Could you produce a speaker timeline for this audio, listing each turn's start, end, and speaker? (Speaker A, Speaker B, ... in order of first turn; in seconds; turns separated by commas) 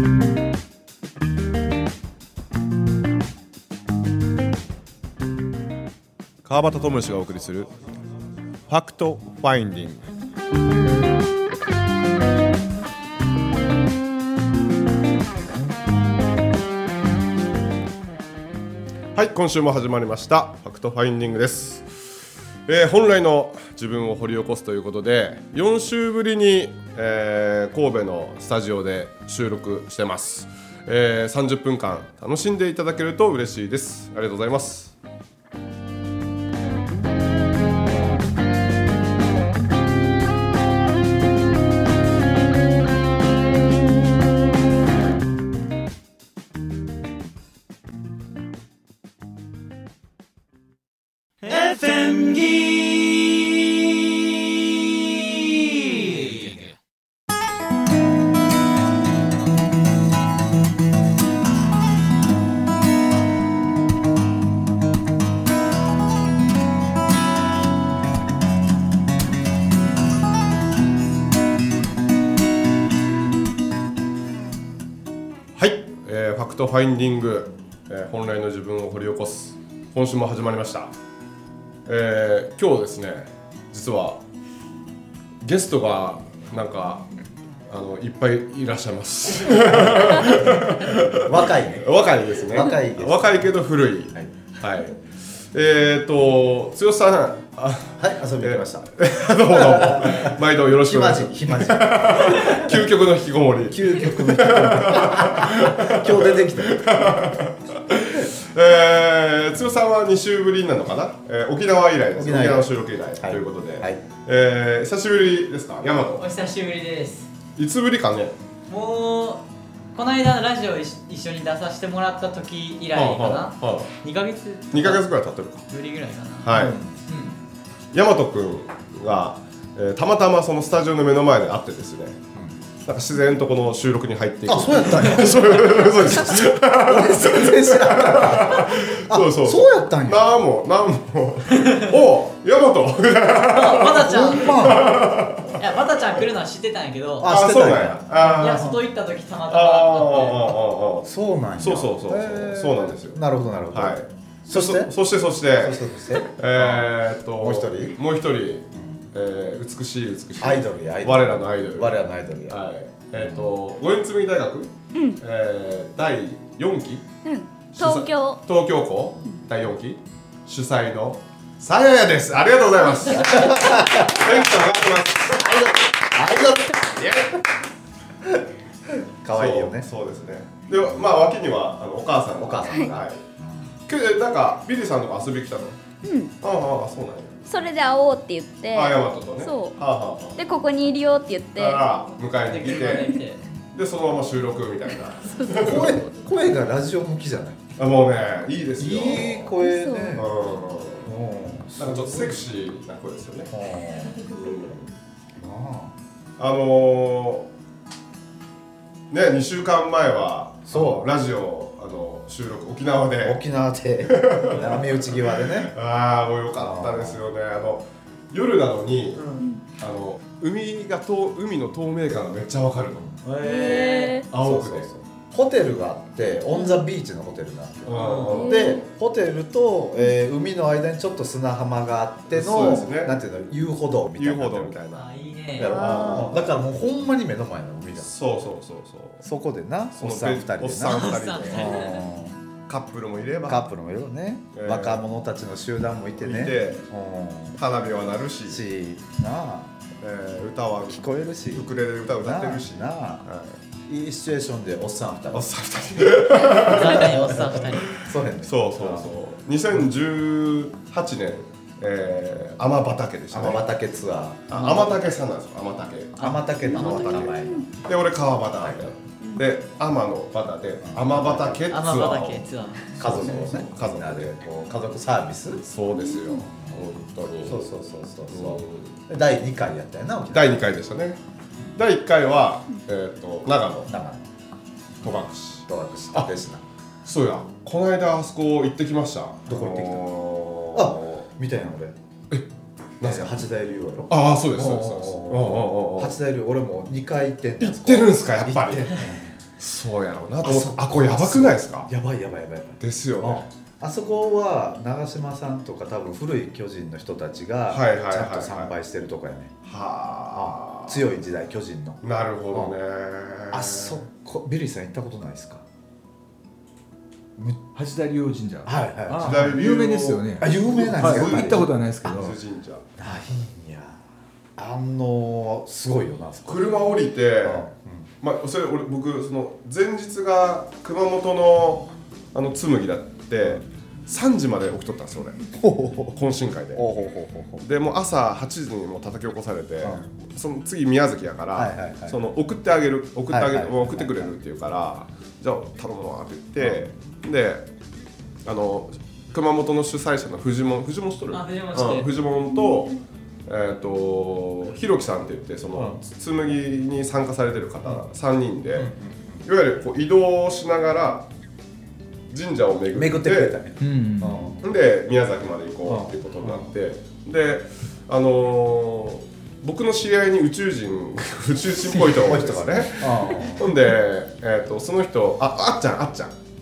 Speaker A: 6.5-7.7, Speaker A: 8.7-10.1, Speaker A: 19.1-21.9, Speaker A: 22.7-34.9, Speaker B: 51.6-52.5, Speaker C: 52.1-52.9, Speaker C: 56.2-56.6, Speaker A: 75.6-80.9, Speaker A: 81.9-84.2, Speaker A: 85.4-87.1, Speaker A: 87.7-116.2, Speaker D: 89.6-93.6, Speaker D: 98.0-98.9, Speaker D: 99.4-102.8, Speaker D: 103.7-107.1, Speaker D: 112.2-114.0, Speaker B: 116.2-117.3, Speaker A: 117.6-118.4, Speaker B: 118.7-125.0, Speaker A: 122.9-123.9, Speaker A: 124.7-125.7, Speaker B: 125.7-127.3, Speaker A: 126.4-126.8, Speaker D: 126.5-126.9, Speaker A: 127.9-132.2, Speaker A: 132.8-145.6, Speaker D: 134.5-140.4, Speaker B: 141.5-141.9, Speaker B: 143.5-144.8, Speaker D: 143.9-145.1, Speaker B: 145.5-147.3, Speaker D: 147.2-148.8, Speaker A: 147.2-148.8, Speaker B: 148.2-150.5, Speaker A: 149.5-153.2, Speaker D: 151.0-154.9, Speaker A: 153.7-155.8, Speaker D: 155.6-158.0, Speaker A: 156.3-167.1, Speaker D: 158.7-159.0, Speaker D: 160.4-162.6, Speaker D: 163.2-163.5, Speaker E: 164.9-165.2, Speaker E: 167.2-168.4, Speaker A: 167.7-175.8, Speaker D: 173.1-174.5, Speaker D: 175.3-176.9, Speaker A: 176.8-177.4, Speaker D: 178.9-179.9, Speaker A: 179.3-183.2, Speaker D: 182.4-183.7, Speaker A: 183.9-185.8, Speaker E: 186.0-186.3, Speaker A: 186.4-187.5, Speaker E: 187.5-189.8, Speaker A: 188.7-190.4, Speaker E: 190.4-191.8, Speaker A: 191.6-193.2, Speaker B: 192.5-193.4, Speaker A: 193.7-196.0, Speaker E: 195.4-196.0, Speaker D: 195.6-197.6, Speaker A: 197.8-199.5, Speaker D: 198.8-200.3, Speaker E: 199.6-200.2, Speaker A: 200.2-201.1, Speaker D: 201.0-202.4, Speaker A: 201.8-203.5, Speaker D: 203.5-204.3, Speaker A: 204.2-204.9, Speaker D: 205.4-205.9, Speaker A: 206.4-207.5, Speaker A: 209.1-213.4, Speaker D: 210.7-211.1, Speaker D: 213.2-215.7, Speaker A: 214.1-219.2, Speaker D: 216.6-217.3, Speaker B: 219.2-219.5, Speaker A: 219.8-223.1, Speaker B: 223.2-224.2, Speaker E: 223.4-224.3, Speaker A: 224.3-224.9, Speaker D: 224.3-234.8, Speaker E: 226.5-226.8, Speaker A: 227.9-228.8, Speaker B: 227.9-228.5, Speaker E: 228.3-228.8, Speaker A: 232.3-233.5, Speaker A: 234.2-236.5, Speaker B: 234.9-235.8, Speaker D: 235.6-238.1, Speaker E: 235.6-236.3, Speaker A: 238.0-239.3, Speaker D: 239.2-242.4, Speaker A: 240.0-242.0, Speaker B: 240.9-242.1, Speaker A: 242.7-243.6, Speaker D: 243.4-247.6, Speaker A: 244.5-245.0, Speaker A: 246.2-246.8, Speaker A: 247.6-248.6, Speaker D: 248.5-249.7, Speaker A: 250.0-253.6, Speaker D: 250.9-253.3, Speaker D: 253.9-259.1, Speaker A: 255.3-257.3, Speaker B: 256.5-258.0, Speaker A: 258.4-263.6, Speaker D: 263.3-264.5, Speaker A: 264.5-274.4, Speaker B: 266.2-267.2, Speaker D: 266.2-267.8, Speaker E: 266.8-267.7, Speaker D: 268.6-268.9, Speaker D: 270.8-271.7, Speaker B: 271.7-272.9, Speaker D: 273.0-275.6, Speaker A: 275.7-277.7, Speaker E: 275.9-276.4, Speaker D: 277.4-280.6, Speaker A: 278.3-278.9, Speaker A: 280.3-281.2, Speaker A: 281.8-283.9, Speaker D: 283.9-284.3, Speaker A: 285.0-286.3, Speaker D: 285.7-286.6, Speaker A: 287.1-291.3, Speaker D: 289.5-290.1, Speaker D: 290.7-292.0, Speaker A: 293.0-293.4, Speaker D: 293.0-299.4, Speaker A: 294.1-296.2, Speaker A: 297.6-299.0, Speaker A: 299.6-301.9, Speaker D: 300.4-309.5, Speaker A: 302.8-303.5, Speaker A: 307.7-308.7, Speaker A: 309.6-311.0, Speaker D: 310.3-312.0, Speaker A: 312.0-314.0, Speaker D: 313.5-315.6, Speaker D: 317.4-317.7, Speaker C: 317.8-322.4, Speaker D: 318.6-319.6, Speaker A: 319.2-322.8, Speaker D: 320.4-322.3, Speaker D: 323.0-324.0, Speaker D: 324.6-326.7, Speaker A: 326.5-327.7, Speaker D: 327.4-328.1, Speaker A: 328.2-335.4, Speaker D: 335.5-336.2, Speaker A: 336.1-336.9, Speaker D: 336.8-337.6, Speaker A: 337.6-347.7, Speaker D: 339.8-340.1, Speaker D: 341.6-342.2, Speaker D: 343.3-344.4, Speaker D: 346.6-346.9, Speaker A: 348.4-353.0, Speaker B: 351.3-352.1, Speaker A: 353.5-358.9, Speaker D: 355.8-356.0, Speaker D: 358.8-359.5, Speaker A: 359.4-361.3, Speaker A: 362.3-363.6, Speaker D: 362.9-364.6, Speaker C: 363.8-364.5, Speaker A: 364.6-376.4, Speaker D: 365.9-366.7, Speaker D: 371.9-373.8